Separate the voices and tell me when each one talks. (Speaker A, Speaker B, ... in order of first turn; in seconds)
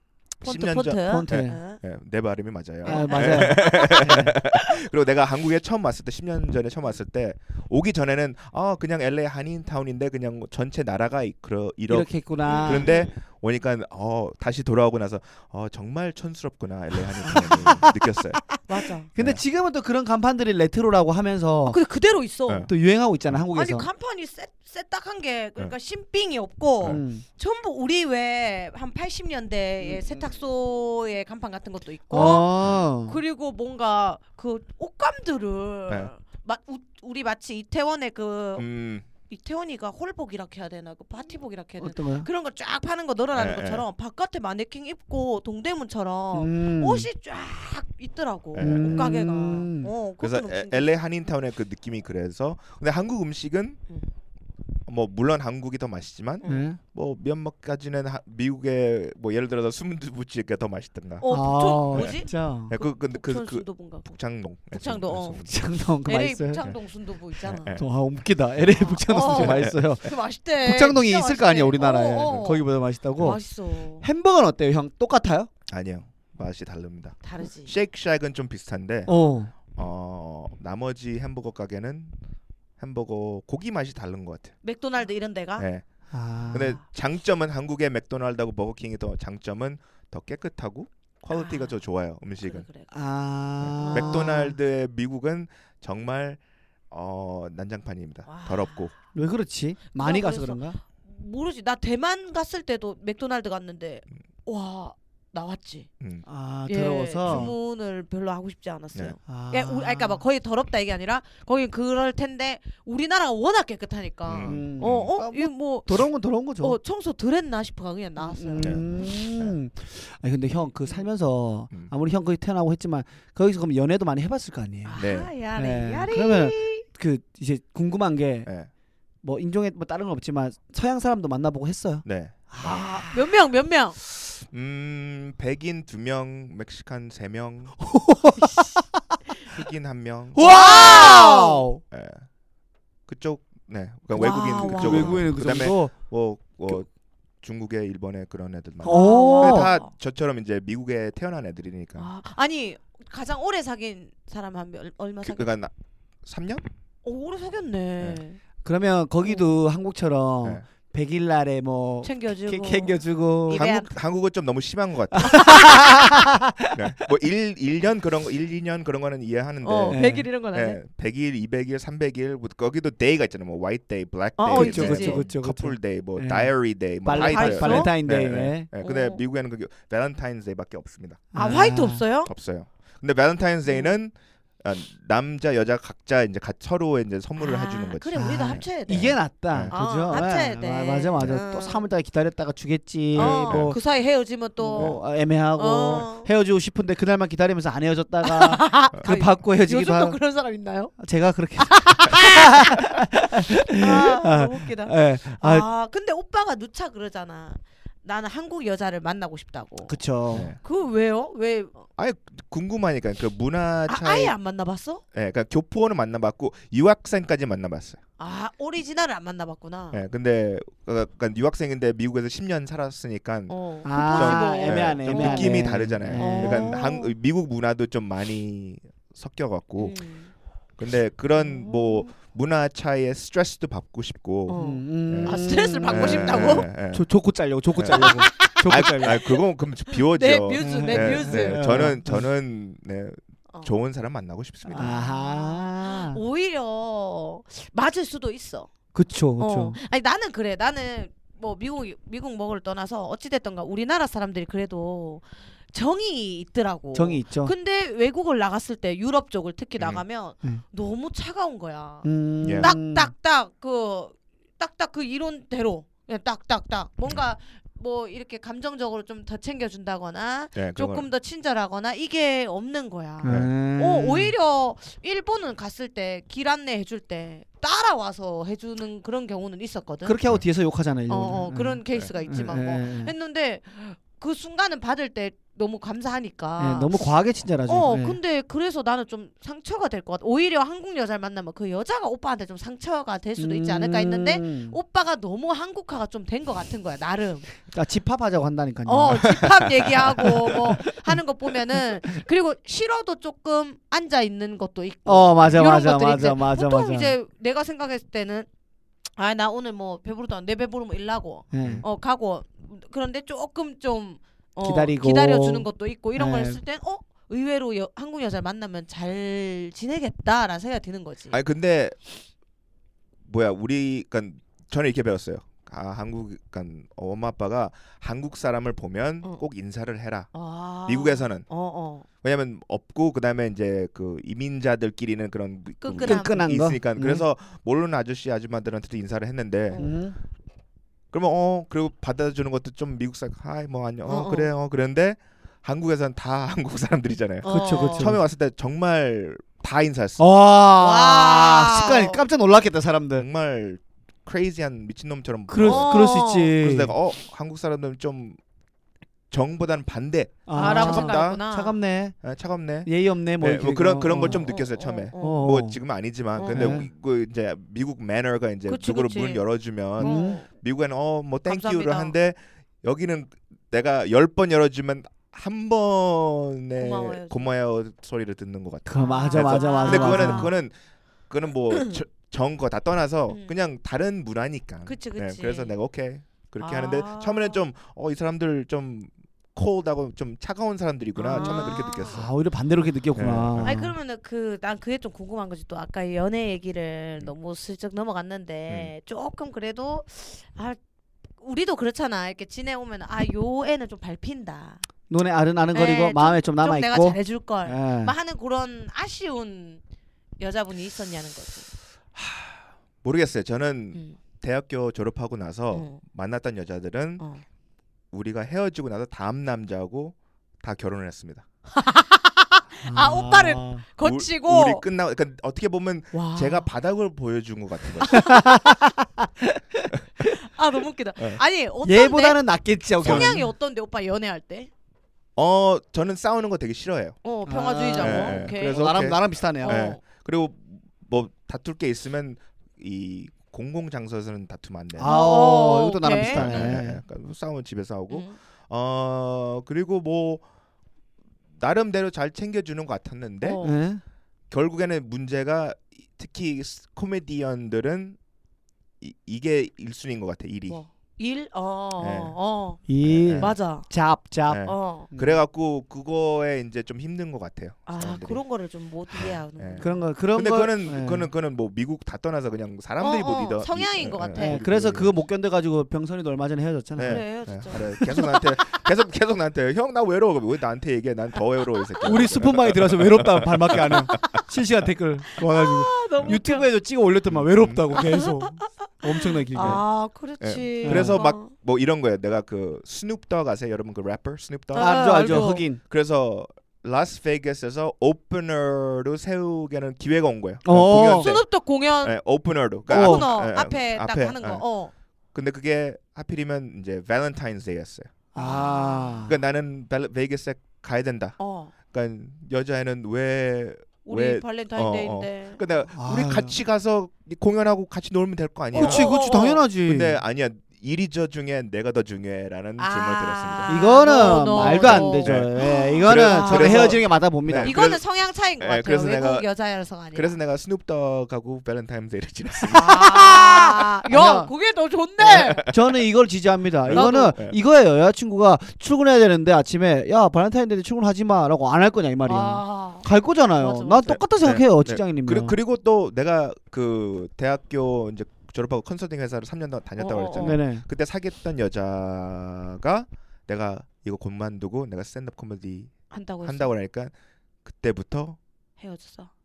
Speaker A: 0.4-18.4, 32.2-32.8, 38.6-39.0, 43.3-43.9, 48.5-49.1, 50.2-53.8, 54.9-61.3, 61.9-65.6, 67.4-67.8, 69.3-69.9, 75.7-79.1, 79.7-82.2, 82.8-84.5, 85.6-85.8, 86.5-92.7, 93.6-98.9, 106.0-106.2, 107.2-107.5, 114.3-115.1, 118.6-119.5, 125.0-125.3, 132.0-132.9, 134.1-137.8, 139.5-141.1, 141.9-142.2, 143.1-146.9, 147.4-152.1, 155.2-155.7, 156.2-156.7, 163.5-165.9, 166.7-181.3, 182.2-189.8, 193.1-193.8, 194.7-195.0, 210.3-210.6, 212.0-214.3, 215.1-218.0, 219.9-230.0, 230.8-237.1, 237.7-245.0, 259.8-260.0, 262.4-262.7, 270.5-271.1, 273.2-273.5, 299.3-300.7, 311.6-311.8, 321.3-322.0, 323.2-330.3, 330.9-331.4, 332.2-339.8, 341.1-350.2, 353.2-358.4, 359.3-361.4, 362.2-380.7, 381.3-392.3, 393.1-393.7, 412.1-417.2, 418.1-421.4, 424.0-428.4, 433.0-433.4, 435.4-437.2, 438.0-445.1, 446.1-450.4, 451.6-453.6, 454.5-458.2, 459.0-460.8, 462.0-462.4, 463.0-463.6, 464.5-468.4, 469.1-475.1, 476.9-484.2, 487.3-488.0, 490.4-501.4, 502.0-504.6, 505.3-508.1, 509.3-519.1, 519.9-528.0, 528.6-529.5, 530.1-533.8, 535.2-535.8, 536.8-537.6, 544.1-557.1, 557.6-558.4
Speaker B: 0.4-1.8, 2.8-4.2, 12.4-13.1, 17.2-17.6, 18.7-19.1, 21.6-22.7, 23.5-38.7, 39.3-50.9, 61.2-64.1, 64.7-65.5, 66.0-67.7, 68.7-74.0, 77.2-77.7, 84.6-85.7, 91.3-91.8, 92.4-92.9, 93.8-94.2, 98.2-98.9, 99.9-105.9, 106.7-116.1, 116.6-119.1, 124.8-126.9, 132.6-134.0, 140.4-141.7, 144.1-145.3, 148.8-149.9, 152.0-155.5, 157.0-158.4, 159.2-159.6, 162.0-163.9, 165.4-166.1, 169.6-170.8, 174.4-175.2, 177.1-177.9, 178.8-179.2, 181.3-182.3, 183.7-183.9, 187.4-189.2, 189.7-191.9, 193.2-196.3, 198.2-201.0, 201.6-202.8, 203.7-210.0, 210.6-211.9, 213.9-215.0, 218.2-220.0, 223.5-227.1, 229.8-230.3, 231.4-232.1, 234.5-236.7, 237.9-239.4, 239.9-241.9, 244.7-248.7, 249.4-280.2, 281.1-287.1, 287.7-297.5, 298.9-308.5, 309.1-321.4, 330.3-332.1, 335.8-336.4, 339.7-340.0, 344.1-344.5, 347.4-348.1, 350.8-352.2, 355.6-356.6, 360.6-361.8, 364.2-365.5, 366.4-366.8, 368.7-369.4, 370.0-370.5, 371.4-372.1, 376.8-377.5, 379.0-380.6, 381.7-381.9, 383.3-383.5, 384.9-385.8, 386.6-387.6, 391.1-392.2, 393.6-400.8, 401.4-404.8, 405.7-409.8, 410.4-411.7, 415.7-416.0, 421.7-424.8, 426.1-426.7, 428.1-428.4, 430.3-434.7, 437.2-439.1, 439.6-440.0, 445.0-446.7, 448.1-448.4, 453.4-453.8, 460.7-462.8, 463.4-463.9, 464.6-465.1, 467.9-470.1, 473.0-474.6, 477.0-478.4, 483.9-484.4, 485.4-486.7, 487.9-491.5, 494.7-495.6, 500.9-502.2, 502.9-504.9, 508.3-509.3, 511.4-511.7, 514.0-515.6, 518.7-519.6, 522.8-530.4, 532.7-535.7, 536.9-537.4, 542.2-544.2, 550.0-550.6, 556.1-556.7, 558.8-559.3
Speaker C: 1.1-1.6, 2.9-4.3, 11.9-12.9, 17.2-17.9, 19.1-21.8, 22.7-23.9, 26.9-27.2, 32.1-33.2, 41.8-42.3, 46.3-47.1, 48.6-49.9, 56.4-56.8, 61.3-62.7, 65.4-66.6, 67.7-70.0, 70.6-73.4, 74.0-75.5, 79.1-79.5, 86.1-86.8, 92.9-94.5, 99.1-100.8, 106.2-107.5, 109.3-110.2, 114.4-116.8, 118.2-128.5, 129.2-133.2, 137.8-138.9, 140.3-141.8, 144.3-145.9, 148.8-149.7, 158.6-163.7, 165.1-167.0, 169.9-170.3, 174.5-176.5, 177.0-178.7, 181.3-182.0, 188.1-193.8, 194.6-200.2, 201.0-205.7, 209.9-210.5, 223.8-226.8, 234.6-239.2, 240.6-242.2, 244.7-246.2, 248.9-249.8, 256.9-257.5, 262.0-263.1, 273.2-274.3, 280.0-283.1, 286.6-288.2, 293.4-294.8, 297.7-299.4, 300.2-301.1, 305.1-307.1, 311.5-311.8, 314.6-316.6, 336.0-337.2, 339.8-340.1, 347.5-348.2, 350.2-353.2, 355.5-356.9, 360.5-362.1, 362.8-364.4, 365.2-365.8, 366.5-366.9, 370.0-370.4, 378.9-380.5, 391.3-393.9, 405.1-408.1, 422.9-423.8, 428.1-430.4, 431.8-433.5, 437.4-439.9, 445.0-447.0, 453.6-454.0, 462.9-465.4, 469.8-471.3, 474.4-478.1, 482.0-489.8, 490.8-491.2, 494.8-495.8, 500.6-501.3, 502.9-503.3, 508.3-509.3, 515.9-516.6, 518.7-520.2, 523.7-527.7, 532.9-533.4, 534.1-534.5, 535.6-545.6, 550.4-550.8